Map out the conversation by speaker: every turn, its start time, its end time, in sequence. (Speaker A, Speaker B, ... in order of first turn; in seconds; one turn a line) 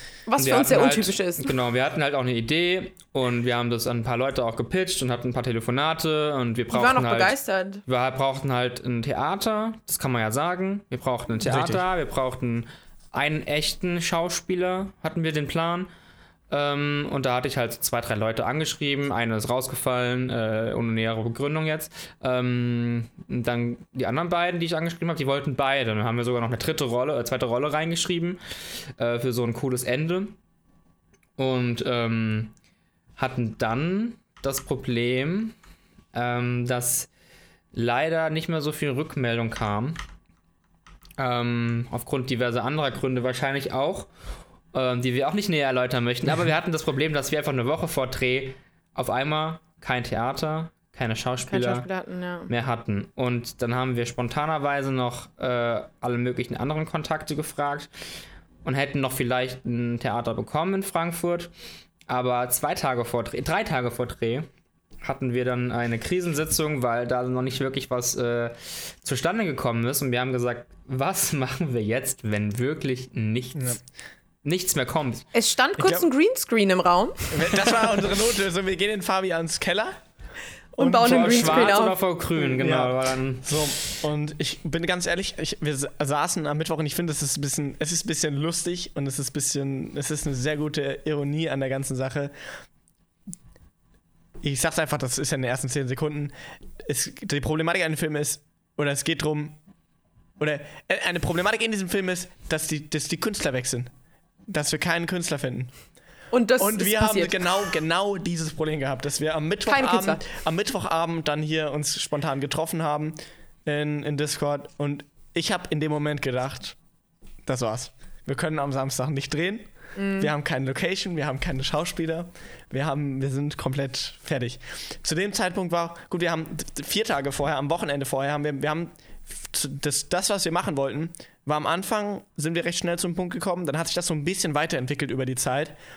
Speaker A: 0.3-1.5
Speaker B: 0.4-15.9
Speaker A: 6.7-7.8
Speaker C: 11.4-11.8
Speaker B: 16.5-28.4
Speaker B: 29.0-30.4
Speaker B: 31.4-32.5
Speaker B: 33.2-35.5
Speaker B: 36.1-37.1
Speaker B: 37.7-40.0
Speaker B: 41.2-44.1
Speaker B: 44.7-51.9
Speaker A: 51.5-52.5
Speaker B: 52.5-57.9
Speaker B: 58.6-61.5
Speaker B: 62.1-64.5
Speaker B: 65.0-73.8
Speaker B: 74.4-75.3
Speaker A: 75.3-77.5
Speaker C: 75.8-76.1
Speaker C: 77.3-80.0
Speaker C: 80.8-81.8
Speaker A: 80.8-82.0
Speaker B: 81.0-84.0
Speaker C: 82.4-92.3
Speaker C: 94.4-99.6
Speaker C: 100.4-103.9
Speaker C: 104.5-105.7
Speaker A: 106.3-107.8
Speaker C: 106.6-116.8
Speaker A: 109.7-110.2
Speaker C: 117.5-135.8
Speaker A: 120.0-120.3